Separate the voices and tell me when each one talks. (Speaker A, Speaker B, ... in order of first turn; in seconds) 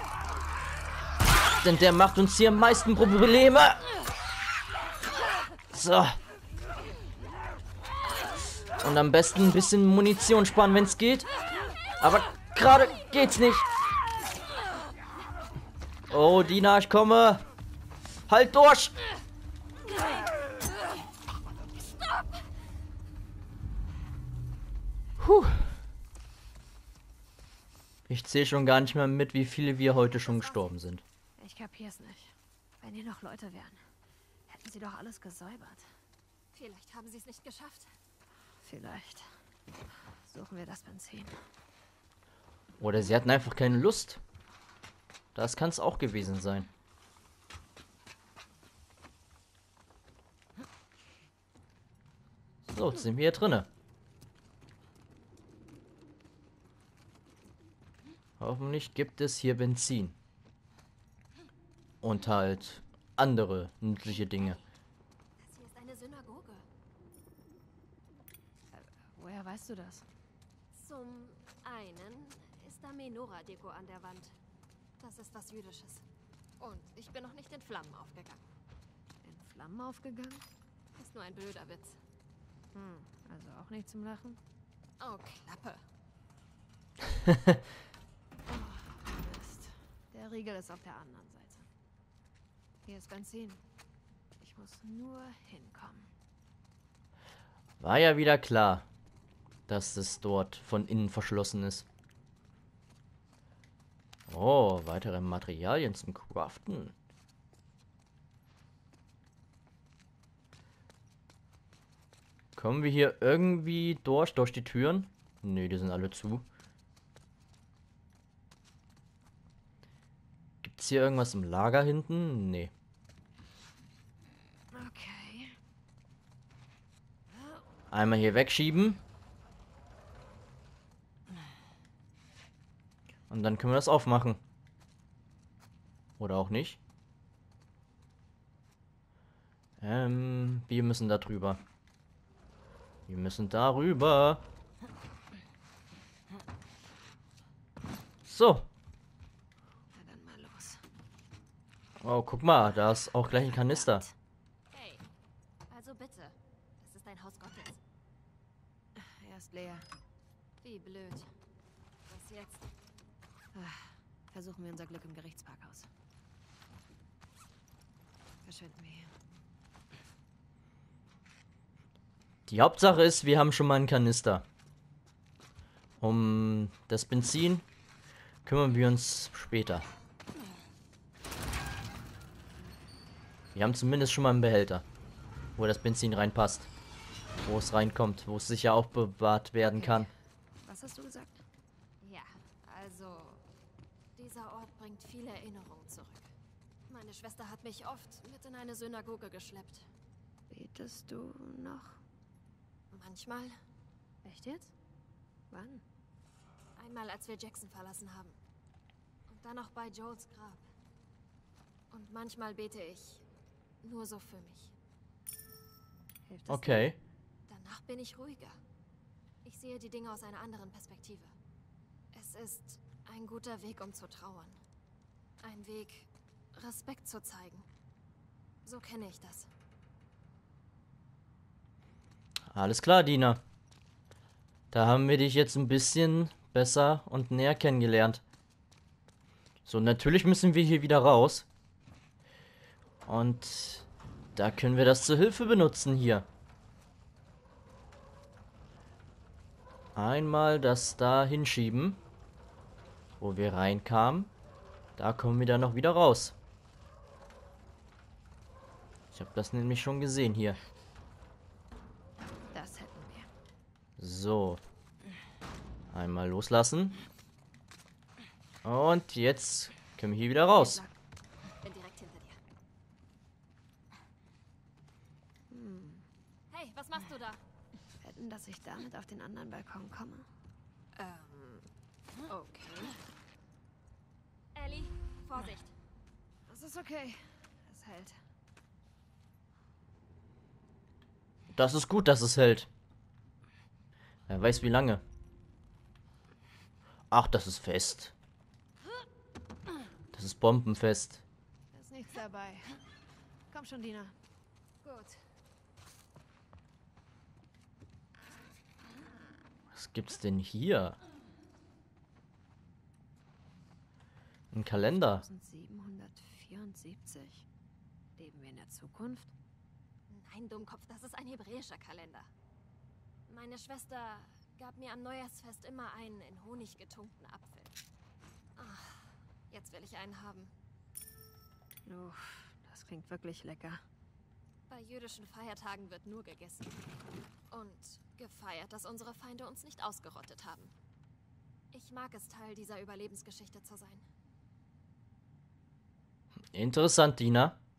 Speaker A: 1.6-3.8, 5.7-6.2, 8.8-11.3, 12.0-13.7, 16.1-17.4, 18.3-18.9, 25.2-25.7, 28.1-31.0, 42.8-44.2, 45.3-46.7, 52.6-53.7, 58.4-60.1, 62.0-64.6, 87.2-87.6, 97.8-98.8, 99.7-101.9, 104.3-106.9, 112.5-116.4, 120.6-122.7, 127.9-129.0, 133.3-134.4, 136.2-136.8, 139.8-141.6, 143.1-144.4, 148.2-148.7, 152.0-154.1, 172.5-174.4, 176.0-177.6, 178.4-179.8, 183.5-184.8, 185.6-186.7, 187.4-190.1, 216.5-217.0, 232.5-233.4, 234.7-238.2, 239.7-241.5, 243.1-246.3, 249.9-252.0, 253.2-254.3, 255.0-256.3, 259.1-260.6, 264.0-264.6, 265.9-267.0, 268.6-270.8, 291.5-292.7, 294.3-295.0, 297.1-298.1, 300.1-301.2, 309.7-311.0, 314.5-315.2, 346.5-347.6
Speaker B: 30.1-30.7, 36.5-37.9, 65.4-66.7, 70.7-74.3, 75.0-76.0, 76.6-78.4, 81.0-82.0, 85.0-85.8, 154.7-155.0, 155.7-157.8, 160.6-161.3, 162.1-162.7, 192.0-193.4, 194.2-196.3, 196.9-199.9, 202.9-203.6, 206.8-208.4, 209.3-210.6, 211.9-213.2, 213.8-214.7, 217.5-218.6, 219.4-221.3, 222.1-224.6, 225.4-227.7, 228.6-229.5, 271.6-272.4, 276.5-277.4, 280.9-281.6, 284.5-285.7, 304.8-305.2, 320.1-322.3, 323.3-327.7, 328.6-330.5, 334.7-336.8, 337.5-340.7, 341.7-344.0
Speaker C: 31.4-33.8, 34.5-35.9, 38.6-39.4, 40.1-41.4, 68.7-70.1, 79.2-80.4, 82.7-84.4, 88.5-91.7, 92.8-93.6, 94.4-96.1, 124.7-125.6, 149.9-150.8, 153.6-154.1, 158.9-159.9, 163.5-165.9, 168.4-169.1, 189.8-190.1, 190.6-191.4, 200.5-202.0, 204.2-204.7, 205.5-205.8, 216.2-216.9, 262.5-263.3, 270.5-270.9, 275.5-276.1, 278.0-280.3, 282.3-283.0, 286.5-288.2, 301.7-302.8, 303.5-304.1, 315.0-317.4, 318.2-319.3, 331.9-333.8